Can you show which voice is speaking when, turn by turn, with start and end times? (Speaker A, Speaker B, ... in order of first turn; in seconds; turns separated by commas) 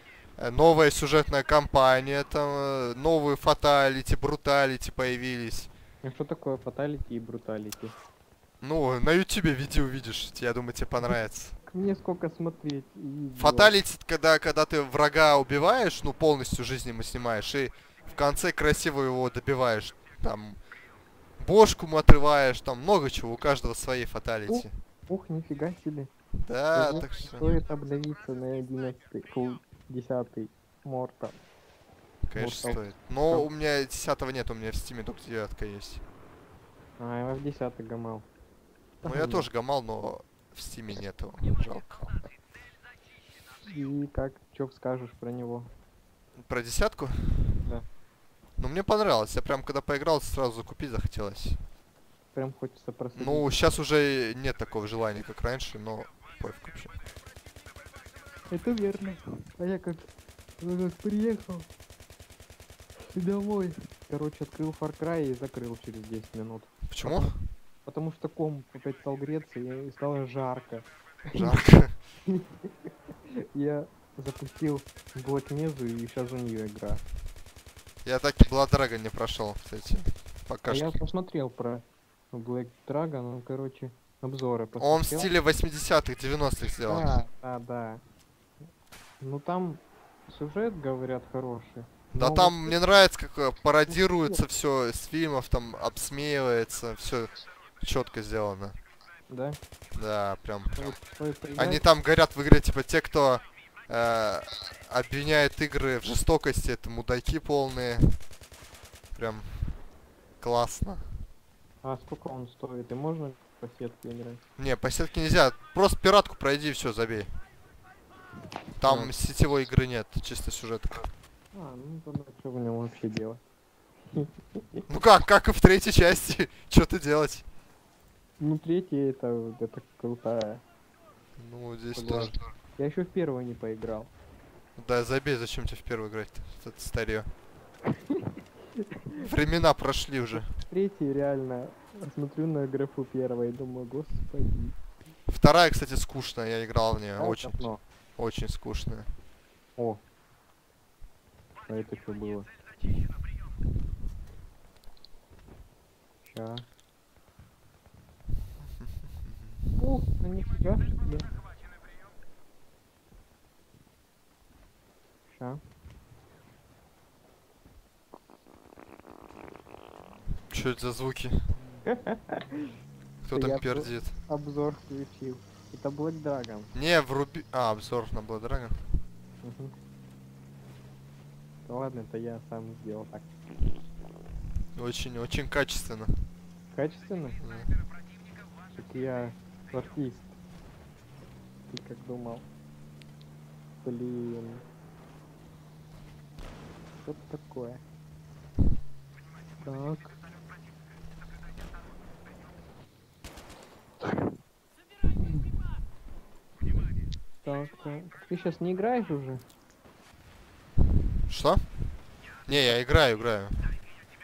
Speaker A: 0.4-5.7, Speaker B: 6.0-7.9, Speaker A: 8.6-11.6, Speaker B: 11.1-13.8, Speaker A: 13.4-20.6, Speaker A: 21.4-24.7, Speaker B: 24.5-26.1, Speaker A: 26.4-27.5, Speaker B: 26.7-31.4, Speaker A: 32.2-36.0, Speaker B: 32.4-33.5, Speaker B: 37.0-38.3, Speaker B: 39.0-39.5, Speaker A: 39.0-42.3, Speaker B: 43.6-45.7, Speaker A: 46.4-47.7, Speaker A: 48.6-51.6, Speaker B: 52.3-53.5, Speaker A: 53.2-57.0, Speaker B: 58.5-61.7, Speaker B: 63.1-67.3, Speaker A: 66.9-67.5, Speaker B: 67.9-71.5, Speaker A: 71.3-72.0, Speaker B: 73.5-77.0, Speaker A: 78.0-81.0, Speaker B: 80.7-85.3, Speaker A: 84.8-87.1, Speaker B: 86.9-88.0, Speaker B: 89.2-92.7, Speaker A: 92.1-98.8, Speaker B: 93.9-94.4, Speaker B: 99.3-99.6, Speaker A: 99.9-101.0, Speaker B: 100.8-101.8, Speaker A: 101.6-108.2, Speaker A: 109.2-109.8, Speaker A: 110.4-111.2, Speaker B: 111.8-114.4, Speaker A: 114.6-117.3, Speaker A: 118.8-121.1, Speaker B: 118.8-119.1, Speaker B: 121.5-123.4, Speaker B: 124.1-124.8, Speaker A: 124.9-127.5, Speaker B: 128.4-130.6, Speaker A: 131.4-132.3, Speaker B: 132.0-134.1, Speaker A: 134.8-137.3, Speaker B: 137.9-139.3, Speaker A: 139.2-140.5, Speaker B: 140.3-144.8, Speaker A: 145.3-147.6, Speaker B: 147.2-147.8, Speaker A: 148.2-149.1, Speaker B: 151.7-152.5, Speaker B: 156.2-156.7, Speaker A: 158.8-159.8, Speaker B: 159.8-161.3, Speaker B: 165.3-165.6, Speaker A: 170.5-171.6, Speaker B: 171.9-172.7, Speaker A: 173.2-174.2, Speaker B: 173.3-176.7, Speaker A: 176.7-178.9, Speaker B: 179.4-179.7, Speaker B: 181.7-183.3, Speaker A: 184.8-186.3, Speaker B: 186.7-187.4, Speaker A: 187.4-187.7, Speaker B: 188.7-190.3, Speaker B: 191.7-192.5, Speaker B: 193.8-194.6, Speaker B: 197.0-197.8, Speaker B: 199.6-200.2, Speaker B: 207.4-209.4, Speaker A: 211.3-211.7, Speaker A: 212.5-213.7, Speaker B: 212.5-212.8